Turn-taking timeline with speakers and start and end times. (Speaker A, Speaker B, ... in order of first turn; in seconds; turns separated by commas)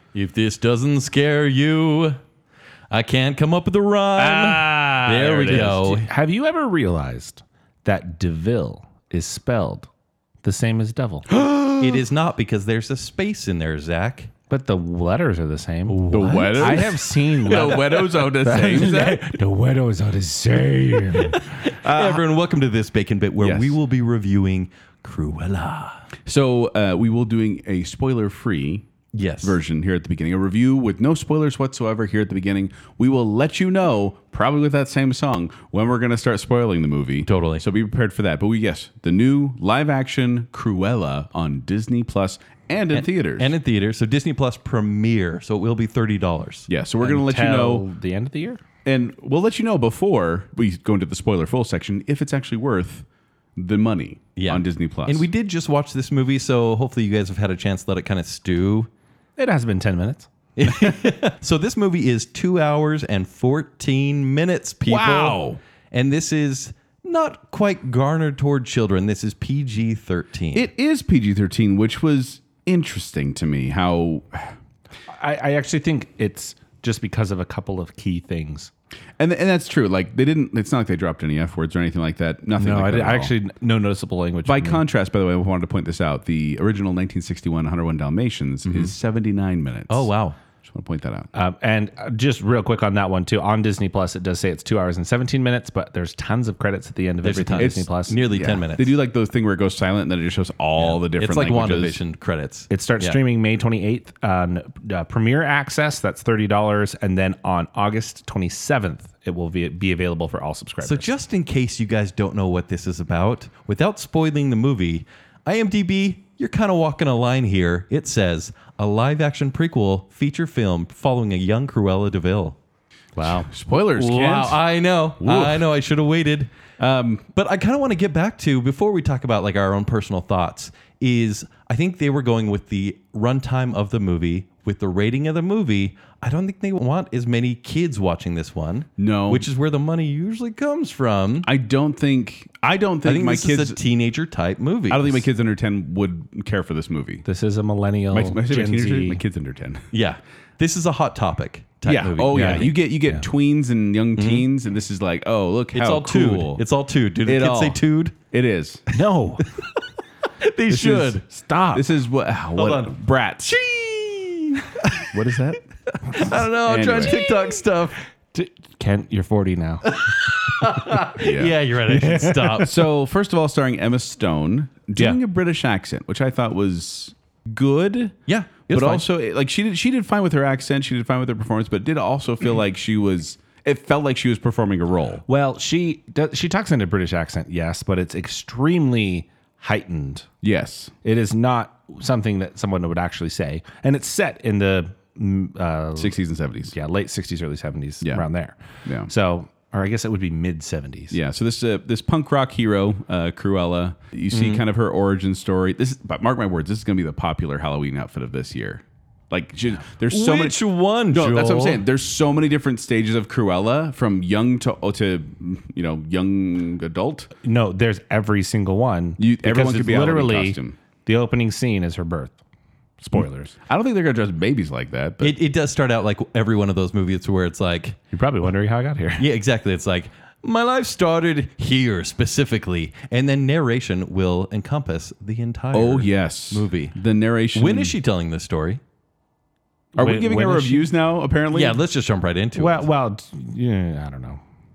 Speaker A: 0.1-2.2, Speaker A: 2.9-6.1, Speaker B: 4.2-9.9, Speaker B: 10.4-11.3, Speaker C: 11.3-12.0, Speaker A: 11.8-14.3, Speaker B: 14.5-21.6, Speaker A: 15.9-17.0, Speaker C: 16.0-19.3, Speaker C: 21.6-22.2, Speaker A: 21.7-26.1, Speaker C: 23.4-23.8, Speaker C: 26.2-28.9, Speaker A: 29.1-29.6, Speaker C: 29.4-43.5, Speaker A: 37.2-37.6, Speaker A: 42.9-46.7, Speaker C: 46.7-47.8, Speaker B: 47.0-48.6, Speaker C: 48.8-55.3, Speaker A: 54.4-58.9, Speaker B: 59.4-60.3, Speaker A: 60.6-70.7, Speaker C: 64.8-65.6, Speaker C: 70.5-74.5, Speaker B: 75.1-78.7, Speaker C: 79.2-83.3, Speaker B: 82.6-84.8, Speaker C: 84.4-90.1, Speaker A: 88.6-88.9, Speaker A: 89.9-90.4, Speaker C: 90.6-91.3, Speaker B: 91.3-98.2, Speaker A: 97.2-98.9, Speaker C: 97.6-102.0, Speaker A: 100.8-103.2, Speaker B: 102.7-111.1, Speaker A: 110.8-122.5, Speaker B: 123.2-123.5, Speaker C: 123.2-124.6, Speaker A: 123.9-126.5, Speaker C: 125.2-125.7, Speaker C: 126.8-127.2, Speaker A: 127.3-141.5, Speaker C: 139.0-139.5, Speaker C: 141.4-143.8, Speaker A: 143.0-145.2, Speaker C: 144.9-147.2, Speaker B: 147.2-149.2, Speaker C: 148.1-149.9, Speaker A: 149.9-152.7, Speaker C: 151.8-156.6, Speaker B: 152.3-153.2, Speaker A: 154.2-154.4, Speaker A: 155.7-158.1, Speaker C: 157.2-157.8, Speaker C: 158.3-158.8, Speaker B: 158.9-159.4, Speaker A: 160.4-161.2, Speaker B: 160.7-161.8, Speaker C: 161.7-163.6, Speaker A: 162.6-165.5, Speaker B: 165.1-165.6, Speaker A: 166.0-168.0, Speaker C: 166.7-167.2, Speaker B: 168.3-171.2, Speaker A: 169.9-172.8, Speaker C: 171.2-171.6, Speaker B: 171.9-172.7, Speaker C: 172.6-178.2, Speaker A: 178.3-179.0, Speaker C: 178.7-185.2, Speaker B: 185.3-190.3, Speaker C: 190.4-190.9, Speaker B: 191.0-196.2, Speaker C: 195.9-196.7, Speaker B: 196.7-201.2, Speaker C: 198.8-199.1, Speaker C: 201.1-210.6, Speaker A: 204.3-204.6, Speaker A: 210.1-211.8, Speaker C: 211.1-217.3, Speaker B: 217.4-222.4, Speaker C: 219.2-220.8, Speaker B: 223.0-223.5, Speaker C: 223.2-225.3, Speaker A: 225.2-228.0, Speaker B: 228.1-229.3, Speaker A: 229.2-236.9, Speaker C: 235.7-237.9, Speaker A: 237.5-238.8, Speaker B: 239.9-240.9, Speaker C: 239.9-241.8, Speaker A: 241.5-242.9, Speaker B: 242.6-244.4